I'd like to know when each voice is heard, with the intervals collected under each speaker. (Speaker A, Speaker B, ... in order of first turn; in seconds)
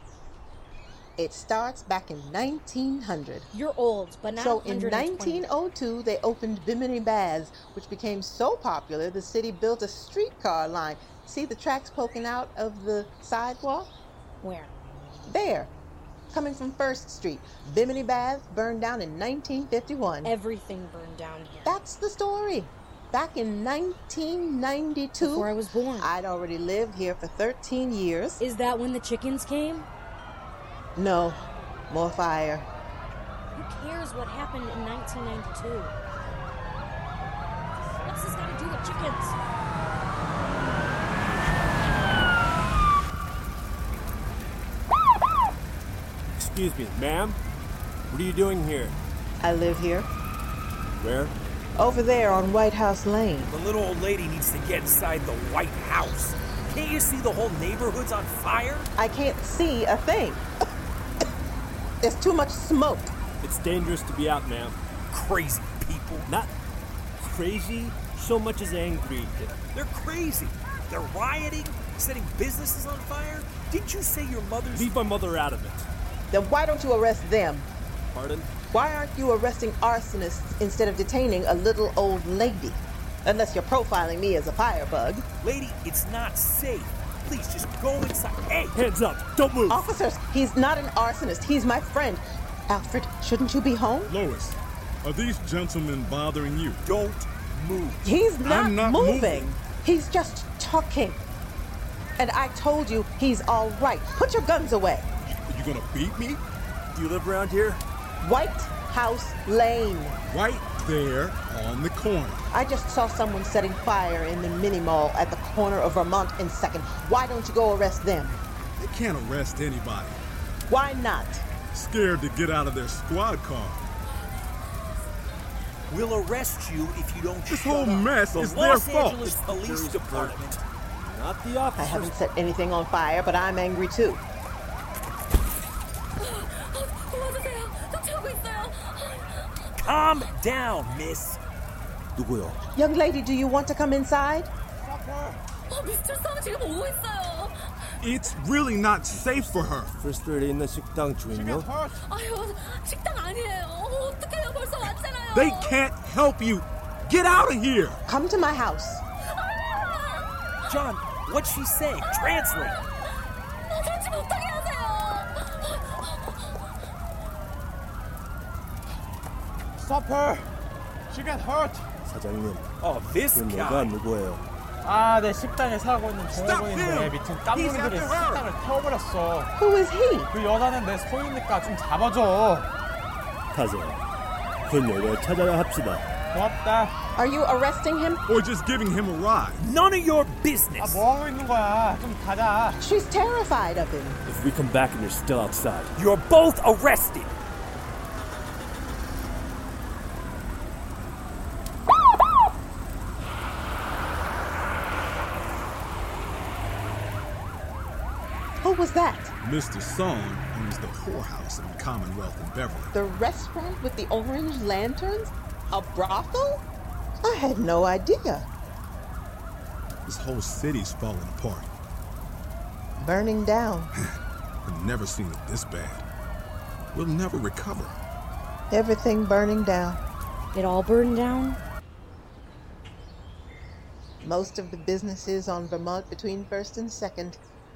Speaker A: 1.2-3.5, 4.4-13.9, 15.3-15.7, 16.3-20.4, 21.7-28.4, 31.0-32.7, 49.4-50.1, 51.8-53.5, 59.0-60.4, 62.0-63.1, 76.3-77.7, 78.7-85.2, 89.7-94.1, 98.0-101.2, 102.2-105.1, 108.2-110.2, 112.5-118.4, 120.7-121.5, 131.8-134.2, 142.8-144.5, 158.1-159.0, 179.6-180.3, 187.2-188.2, 192.8-194.2, 208.6-209.3, 212.9-216.6, 217.2-218.5, 223.0-223.9, 228.7-230.0, 234.2-237.4
Speaker B: 3.5-5.5, 14.4-14.7, 20.2-21.8, 25.2-26.1, 28.4-29.9, 33.5-36.0, 37.9-39.4, 136.2-139.3, 145.7-147.6, 152.0-155.8, 159.6-160.3, 163.7-166.6, 230.5-231.6
Speaker C: 46.4-47.4, 48.1-49.0, 51.0-51.4, 63.4-64.8, 66.3-66.5, 67.2-69.6, 74.7-75.9, 78.1-78.5, 88.7-89.9, 106.9-107.8, 129.3-132.1, 142.2-142.6, 149.9-151.7, 172.0-172.7, 173.3-174.4, 183.5-184.0, 184.7-186.1, 194.2-195.9
Speaker D: 53.5-58.9, 65.1-66.3, 69.6-74.9, 85.4-88.8, 96.8-98.0, 125.9-130.6, 139.8-141.4, 160.7-162.8, 172.8-173.9, 189.6-191.1, 196.0-197.3
Speaker E: 94.1-96.8, 98.5-99.5, 105.3-106.4, 110.3-112.5, 118.8-120.2, 121.7-123.9, 127.5-129.4, 148.0-149.9, 155.3-158.0, 176.3-178.4, 188.3-189.7, 209.4-212.9, 220.1-221.7, 224.0-226.1, 226.9-228.0
Speaker F: 144.9-145.4, 151.3-152.0, 169.8-170.5, 171.1-171.9, 174.8-179.5, 180.3-182.7, 186.3-186.9, 190.9-192.8